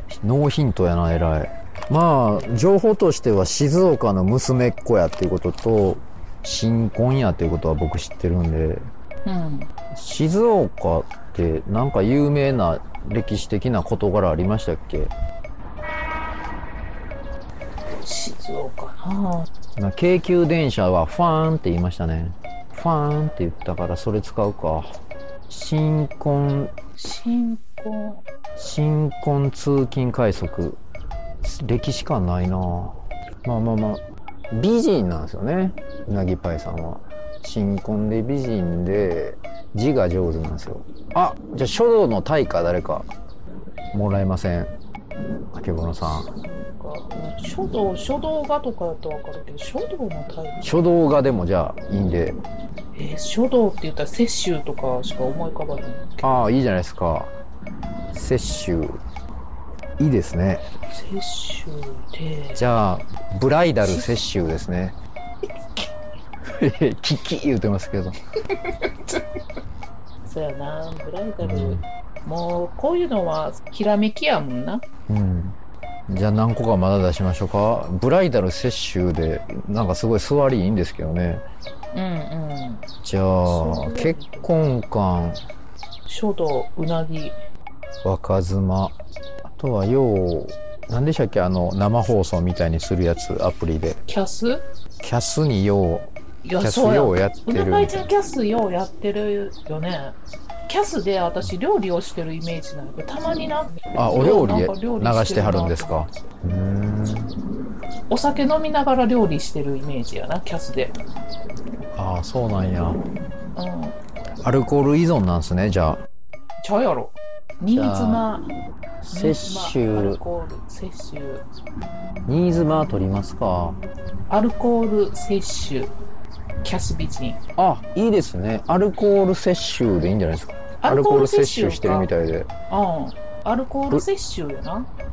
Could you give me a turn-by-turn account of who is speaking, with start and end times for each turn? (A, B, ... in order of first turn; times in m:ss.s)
0:00.1-0:08.8 A
0:09.2-0:09.7 B
0:09.9-0:15.1 A
0:18.0-0:19.5 B
0:19.8-0:24.9 A
0:25.5-0:26.7 A
0:27.0-0:28.2 B
0:28.6-0:30.8 A
0:31.4-0:43.1 A
0:43.9-0:44.7 A
0:45.5-0:46.3 A
0:46.7-0:50.8 B
0:50.6-0:52.4 A
0:52.9-0:56.4 B
0:56.2-0:57.3 A
0:58.1-0:59.0 A
1:00.0-1:00.6 A
1:00.9-1:02.6 B
1:02.6-1:05.0 A
1:03.8-1:04.2 B
1:06.6-1:08.2 A
1:08.5-1:09.2 B
1:10.2-1:14.8 B
1:11.4-1:11.8 A
1:15.1-1:15.6 A
1:16.1-1:21.4 A
1:21.9-1:22.8 B
1:23.0-1:25.4 A
1:23.4-1:24.5 B
1:26.1-1:27.4 B
1:28.0-1:29.0 A
1:29.5-1:34.0 A
1:34.0-1:34.6 B
1:35.0-1:38.0 A
1:36.4-1:46.1 B
1:43.9-1:47.3 A
1:48.1-1:51.0 B
1:51.9-1:53.0 A
1:53.6-1:54.0 B
1:54.4-1:56.0 A
1:56.6-1:58.5 B
1:57.7-1:58.2 A
1:59.0-2:00.2 A
1:59.1-2:01.4 B
2:02.2-2:03.8 A
2:04.3-2:05.9 B
2:06.6-2:07.4 B
2:07.6-2:12.5 A
2:10.8-2:12.1 B
2:12.7-2:14.9 B